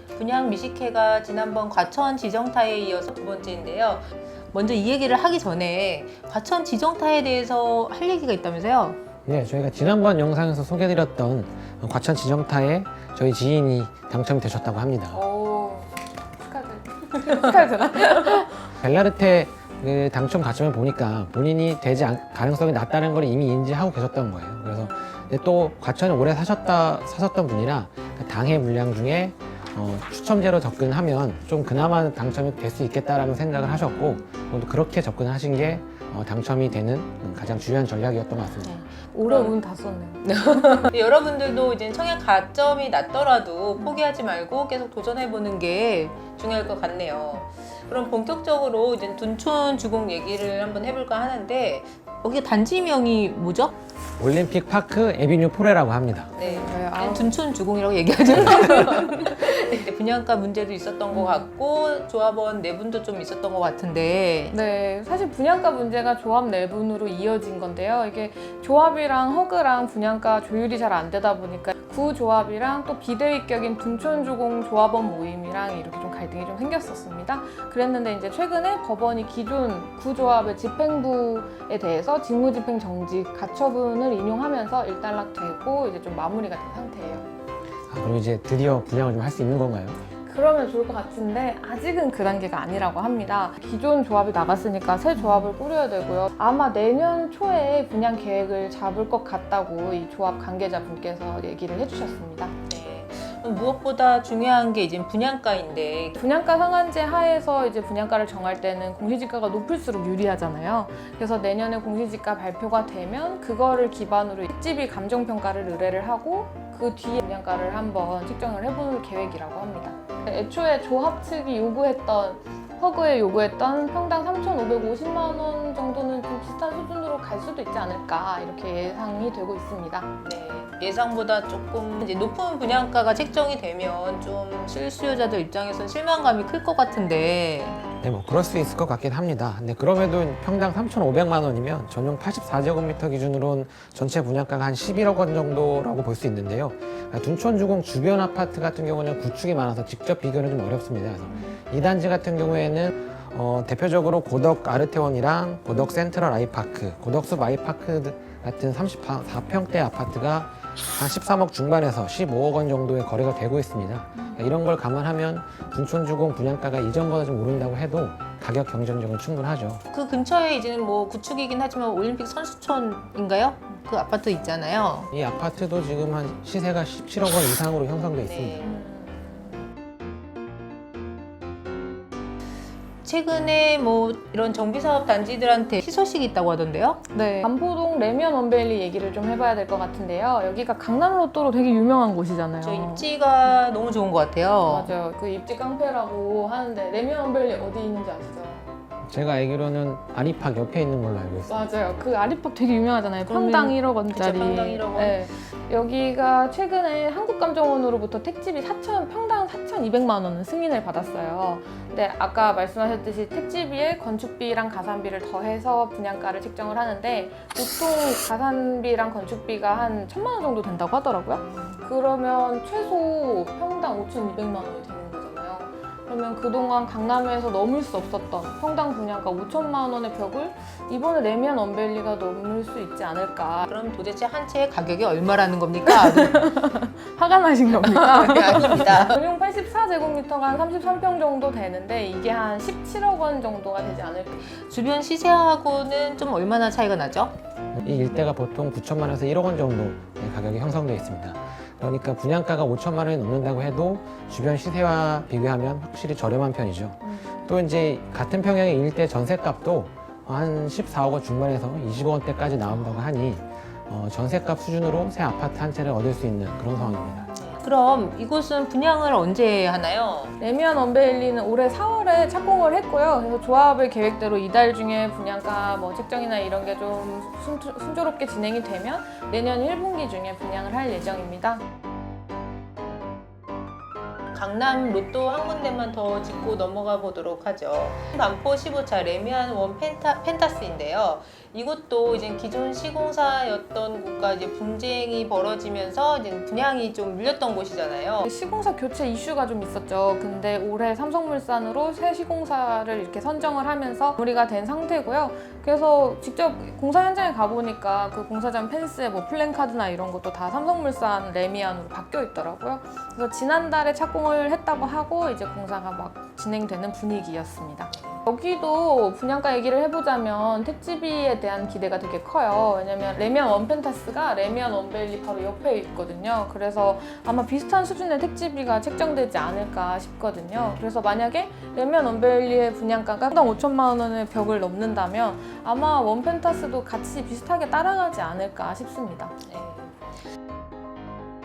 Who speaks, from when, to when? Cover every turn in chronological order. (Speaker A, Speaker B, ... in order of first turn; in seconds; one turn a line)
Speaker A: 0.1-9.0
Speaker B: 9.2-15.2
Speaker C: 15.1-18.7
Speaker B: 18.7-38.8
Speaker C: 24.7-25.3
Speaker C: 38.6-40.9
Speaker A: 39.2-39.5
Speaker A: 40.2-53.7
Speaker B: 54.2-56.3
Speaker A: 56.3-64.5
Speaker C: 56.4-57.4
Speaker C: 61.1-61.5
Speaker C: 64.5-87.3
Speaker B: 87.9-90.0
Speaker C: 90.2-102.5
Speaker A: 95.2-95.5
Speaker A: 102.7-106.2
Speaker C: 106.2-130.1
Speaker A: 130.2-137.8
Speaker B: 138.0-169.8
Speaker A: 169.9-175.1
Speaker B: 175.1-178.6
Speaker A: 178.2-178.8
Speaker C: 178.6-179.6
Speaker A: 183.0-187.0
Speaker C: 187.1-193.1
Speaker A: 192.6-194.9
Speaker C: 194.6-198.7
Speaker B: 199.1-201.6
Speaker C: 201.5-233.7
Speaker A: 203.3-205.3
Speaker A: 221.5-221.8
Speaker A: 233.7-236.4
Speaker C: 235.8-244.5
Speaker A: 237.7-239.2
Speaker A: 244.6-247.3
Speaker B: 247.7-267.3
Speaker C: 247.8-248.2
Speaker C: 257.0-257.4
Speaker C: 266.7-267.3
Speaker A: 267.4-270.4
Speaker C: 270.4-281.6
Speaker A: 284.3-298.3
Speaker C: 298.2-339.3
Speaker A: 317.9-318.2
Speaker A: 339.4-339.9